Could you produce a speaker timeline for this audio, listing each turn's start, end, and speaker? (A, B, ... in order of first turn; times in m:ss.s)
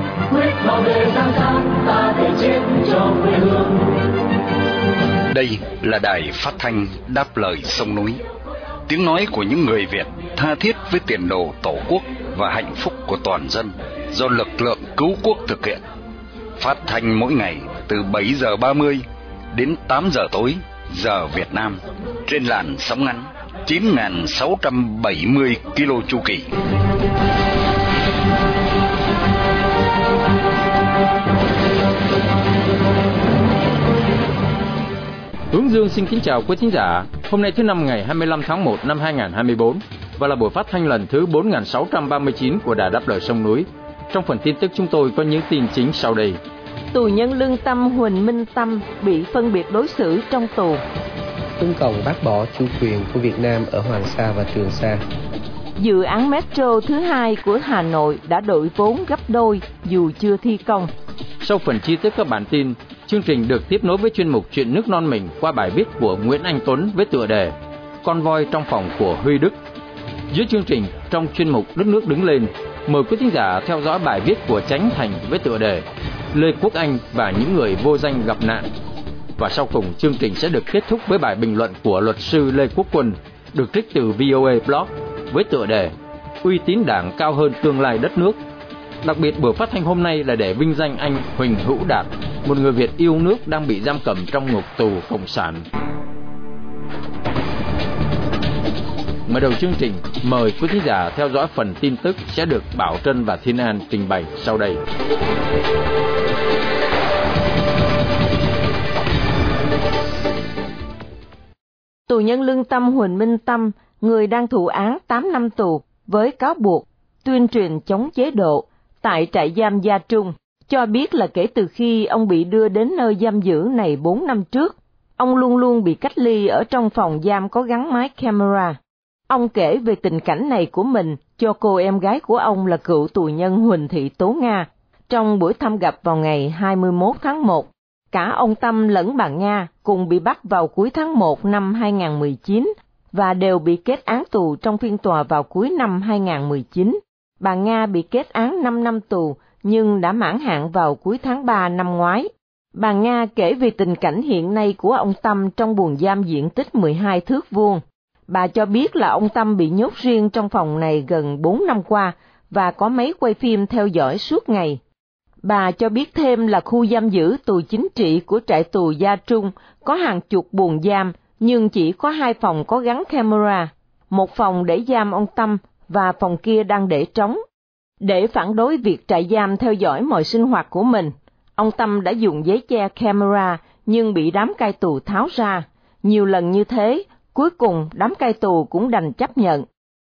0:00.3-0:03.8 A
0:05.3-0:08.2 B
0:08.9-0:15.8 B
0:16.6-0:26.4 B
0:35.5-0:46.4 C
0:46.9-0:50.8 D
0:51.6-0:55.0 E
0:55.8-1:00.9 D
1:01.4-1:09.6 C
1:10.3-1:18.7 C
1:19.4-1:28.4 C
1:29.0-1:35.6 C
1:39.2-1:44.8 C
1:52.1-2:08.8 D
2:09.3-2:44.8 D
2:45.4-2:57.4 D
2:58.0-3:09.6 D